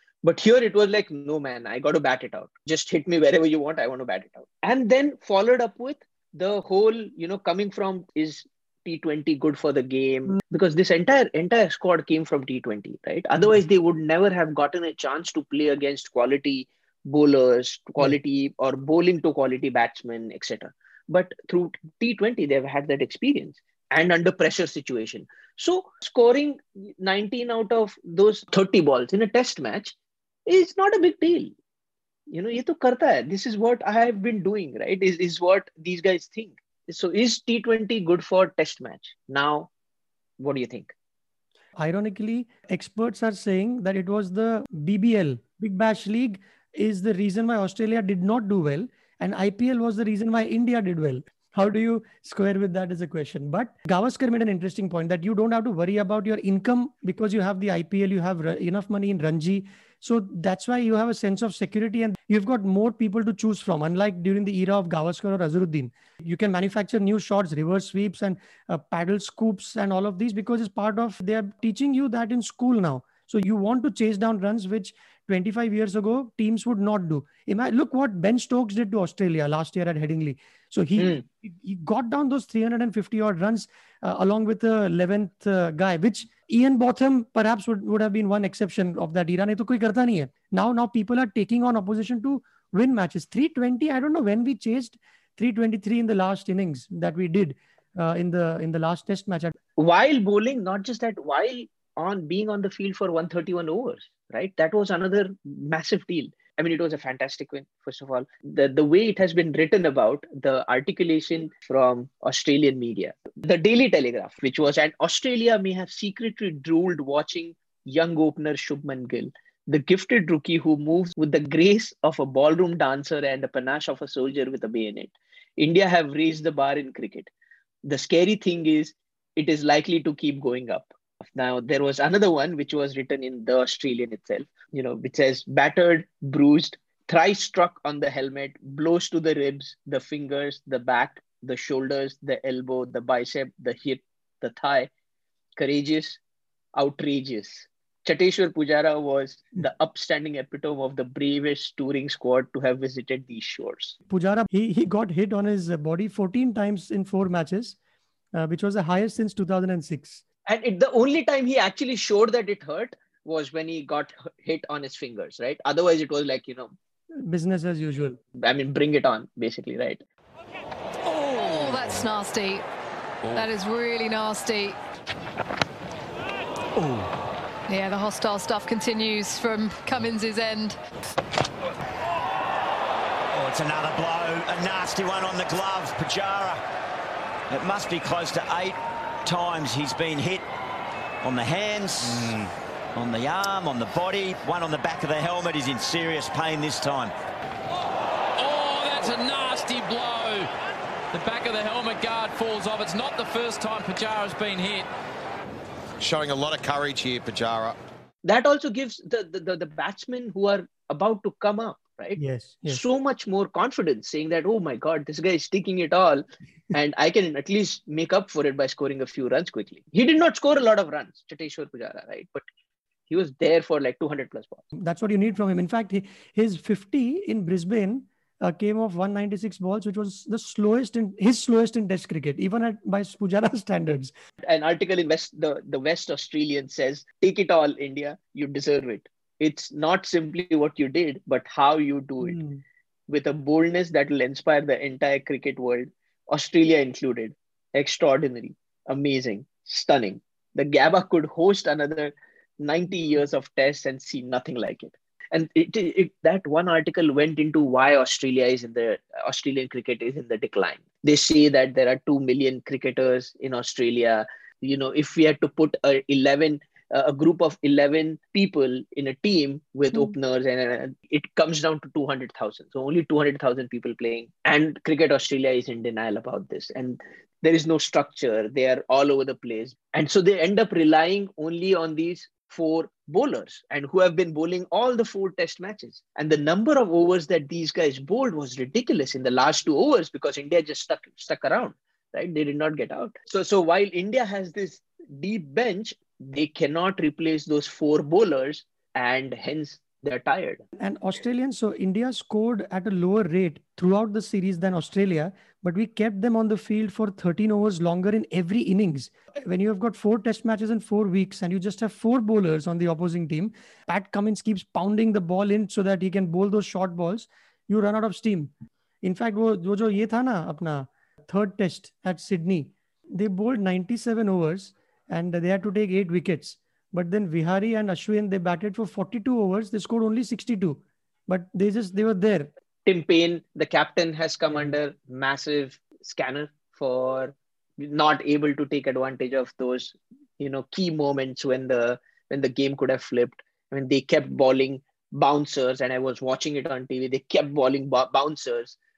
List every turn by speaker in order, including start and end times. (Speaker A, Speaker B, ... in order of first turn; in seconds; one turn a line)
Speaker A: 0.2-29.9
Speaker A: 30.5-31.5
Speaker A: 32.3-39.7
Speaker A: 40.4-40.9
Speaker B: 41.8-99.5
Speaker A: 81.0-81.2
Speaker A: 99.8-127.3
Speaker A: 127.8-144.9
Speaker A: 145.6-146.2
Speaker A: 146.8-154.0
Speaker B: 154.1-157.8
Speaker B: 158.3-160.2
Speaker A: 160.5-166.7
Speaker B: 167.3-168.2
Speaker A: 168.4-170.0
Speaker C: 171.1-172.6
Speaker C: 173.3-174.8
Speaker C: 177.7-180.8
Speaker D: 183.3-186.6
Speaker D: 187.5-190.5
Speaker D: 191.2-197.1
Speaker E: 192.1-192.3
Speaker F: 198.4-200.5
Speaker F: 201.1-204.9
Speaker E: 206.0-207.8
Speaker A: 208.2-222.4
Speaker B: 212.2-212.8
Speaker A: 223.1-224.6
Speaker B: 224.8-234.1
Speaker A: 234.4-242.4
Speaker B: 242.2-242.6
Speaker A: 243.1-300.6
Speaker B: 300.8-318.5
Speaker B: 319.0-332.5
Speaker A: 332.9-348.8